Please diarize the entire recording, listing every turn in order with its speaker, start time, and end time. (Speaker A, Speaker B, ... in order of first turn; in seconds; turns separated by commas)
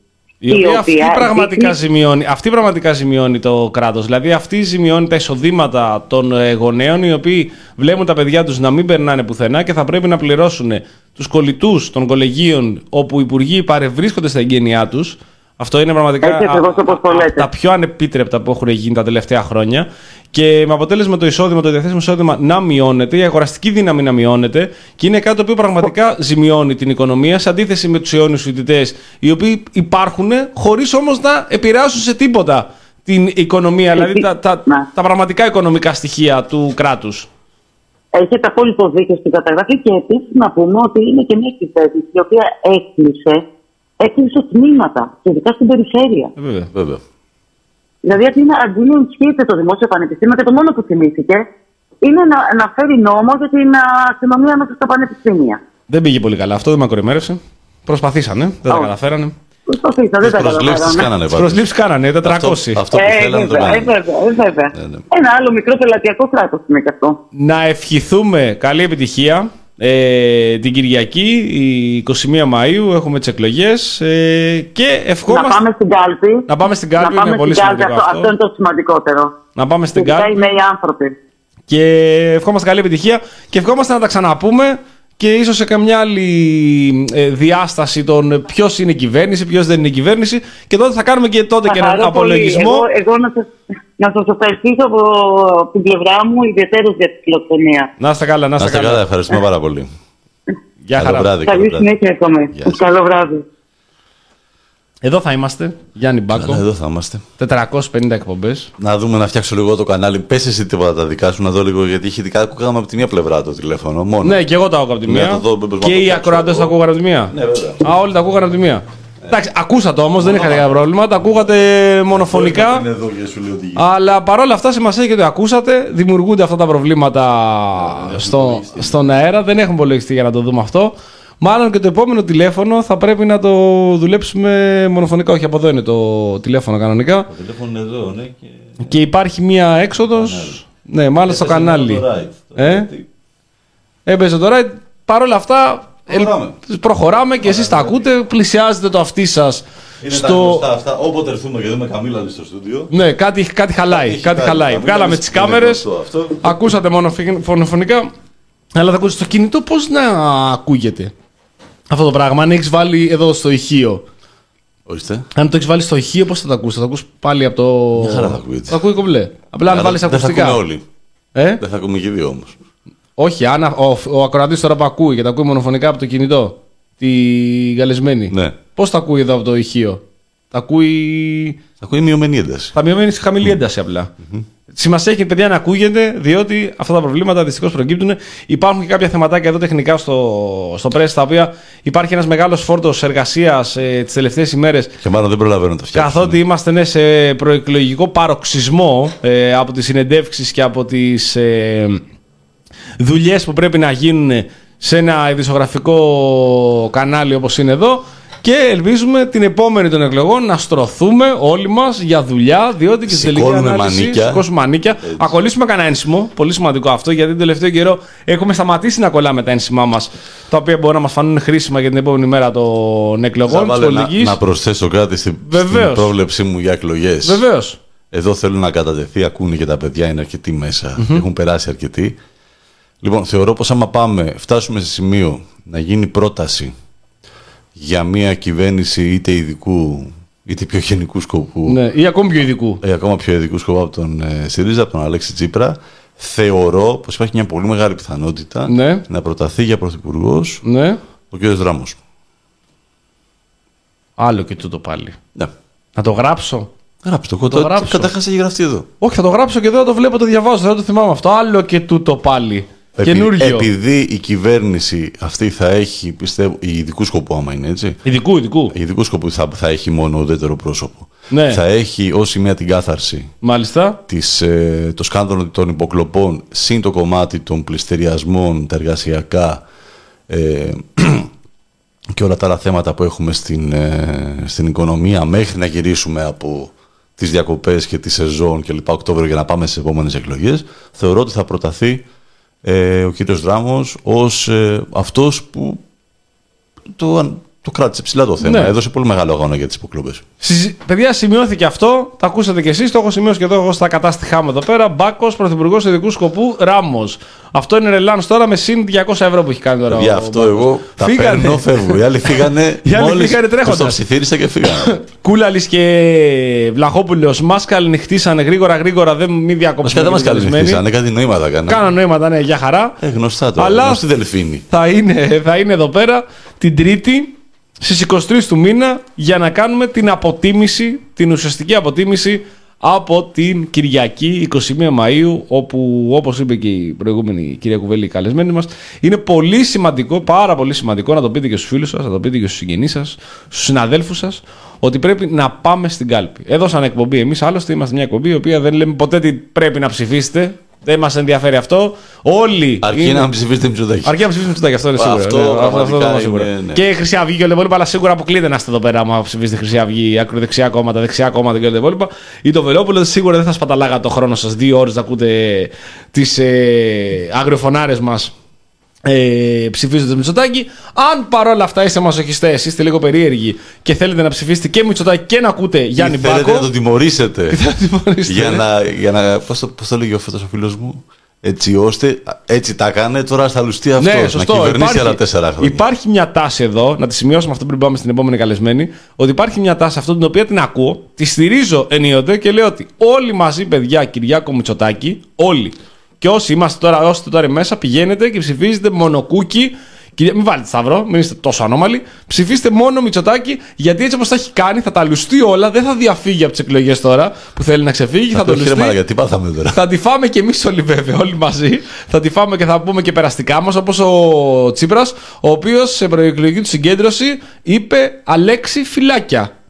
Speaker A: 0.4-37.3, Speaker B: 0.5-1.8, Speaker B: 16.2-17.5, Speaker B: 33.9-34.9, Speaker B: 38.1-43.4, Speaker B: 44.0-46.3, Speaker A: 46.4-46.7, Speaker C: 46.7-47.0, Speaker B: 48.0-51.5, Speaker B: 52.0-55.6, Speaker A: 55.9-59.3, Speaker B: 59.7-61.1, Speaker C: 60.2-61.7, Speaker A: 61.3-62.8, Speaker C: 62.2-63.9, Speaker B: 62.9-67.2, Speaker C: 64.7-65.0, Speaker A: 67.3-75.6, Speaker B: 75.3-76.5, Speaker A: 76.5-78.3, Speaker B: 77.0-79.3, Speaker A: 79.5-80.5, Speaker B: 80.0-81.2, Speaker A: 81.7-92.8, Speaker B: 91.7-97.9, Speaker A: 98.0-99.0, Speaker C: 98.6-99.9, Speaker A: 100.8-101.3, Speaker C: 101.0-101.9, Speaker B: 101.4-103.4, Speaker A: 105.0-106.6, Speaker C: 106.3-107.2, Speaker A: 107.4-108.7, Speaker C: 108.8-114.4, Speaker A: 114.2-122.8, Speaker C: 115.0-116.7, Speaker C: 117.3-117.9, Speaker C: 120.2-121.4, Speaker C: 122.1-123.8, Speaker A: 123.8-137.3, Speaker C: 127.7-129.1, Speaker C: 137.3-138.9, Speaker A: 138.8-142.0, Speaker C: 140.1-140.6, Speaker C: 141.3-143.1, Speaker A: 142.6-142.9, Speaker A: 144.1-150.6, Speaker C: 146.1-146.6, Speaker C: 147.4-148.0, Speaker C: 150.0-152.9, Speaker A: 152.9-155.8, Speaker C: 153.9-156.6, Speaker A: 156.4-158.1, Speaker A: 158.7-161.1, Speaker A: 161.9-164.0, Speaker C: 164.8-165.3, Speaker A: 165.3-170.6, Speaker C: 167.9-168.8, Speaker C: 169.7-170.8, Speaker A: 171.3-171.6, Speaker C: 171.6-172.6, Speaker A: 173.2-180.0, Speaker C: 178.3-178.6, Speaker A: 180.5-181.6, Speaker C: 181.8-182.8, Speaker A: 182.7-184.1, Speaker A: 184.7-194.9, Speaker C: 195.0-196.4, Speaker A: 195.9-202.0, Speaker A: 203.0-224.4, Speaker C: 213.1-214.4, Speaker C: 223.5-227.4, Speaker A: 225.5-226.1, Speaker A: 227.2-227.8, Speaker C: 228.1-232.2, Speaker A: 231.0-231.2, Speaker C: 233.0-236.7, Speaker C: 237.8-241.8, Speaker A: 241.7-242.8, Speaker C: 242.8-250.6, Speaker A: 248.7-249.0, Speaker A: 250.6-251.0, Speaker C: 251.3-252.0, Speaker A: 254.2-255.2, Speaker A: 255.9-256.7, Speaker C: 257.0-258.9, Speaker A: 257.5-258.1, Speaker A: 259.0-263.7, Speaker C: 262.9-268.0, Speaker A: 268.1-268.7, Speaker C: 268.7-273.3, Speaker A: 271.3-271.6, Speaker A: 273.4-274.0, Speaker C: 274.1-279.6, Speaker C: 280.3-281.3, Speaker C: 282.1-292.0, Speaker C: 292.6-295.8, Speaker C: 296.9-300.2, Speaker A: 298.4-298.7, Speaker A: 300.4-314.0, Speaker C: 309.9-315.0, Speaker A: 314.7-320.8, Speaker C: 319.8-321.8, Speaker A: 321.7-322.9, Speaker C: 323.0-324.6, Speaker A: 323.6-324.0, Speaker A: 324.7-353.3, Speaker C: 352.8-354.2, Speaker A: 354.0-368.3, Speaker C: 354.9-356.8, Speaker A: 369.1-376.7, Speaker C: 376.0-377.6, Speaker A: 377.5-378.6, Speaker C: 378.3-385.9, Speaker A: 384.0-408.9, Speaker C: 408.3-409.8, Speaker A: 409.7-419.5